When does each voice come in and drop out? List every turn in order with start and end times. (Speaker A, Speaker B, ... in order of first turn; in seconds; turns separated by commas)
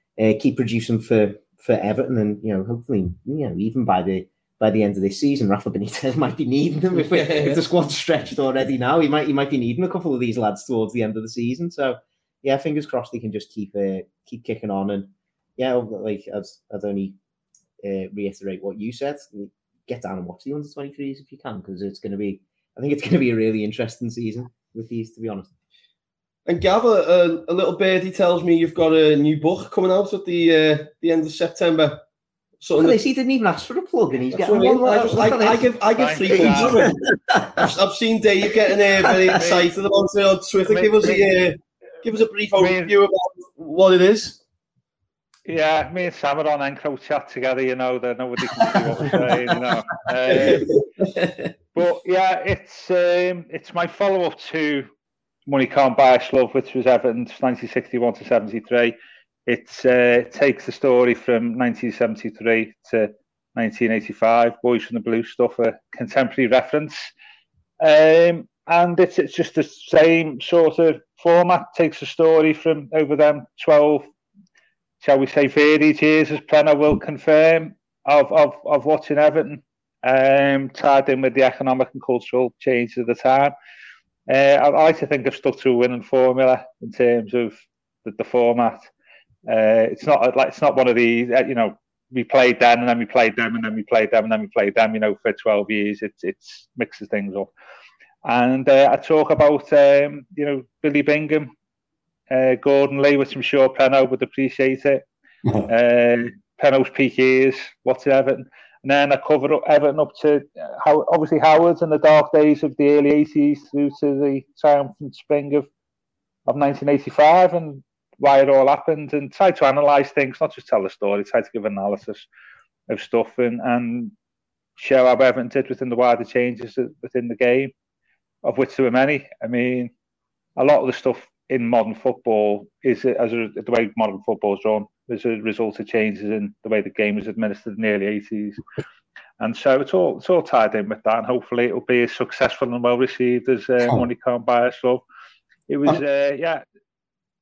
Speaker A: 0.2-17.1, Speaker B: 6.9-7.6, Speaker A: 17.8-25.5, Speaker B: 26.4-32.0, Speaker B: 32.6-33.0, Speaker A: 32.7-35.7, Speaker B: 34.3-44.4, Speaker C: 36.0-36.9, Speaker A: 36.2-37.6, Speaker C: 39.4-39.7, Speaker C: 40.6-41.3, Speaker C: 42.6-42.9, Speaker C: 45.5-50.7, Speaker B: 50.3-51.5, Speaker C: 51.7-54.9, Speaker C: 55.5-58.9, Speaker C: 59.5-67.1, Speaker C: 67.8-74.1, Speaker C: 75.0-83.5, Speaker C: 84.3-88.9, Speaker C: 89.5-97.5, Speaker C: 98.2-101.5, Speaker C: 102.3-105.0, Speaker C: 105.7-115.7, Speaker C: 116.5-122.3, Speaker C: 122.9-124.1, Speaker C: 124.8-127.7, Speaker C: 128.4-129.9, Speaker C: 130.6-138.6, Speaker C: 139.4-145.0, Speaker C: 145.7-146.6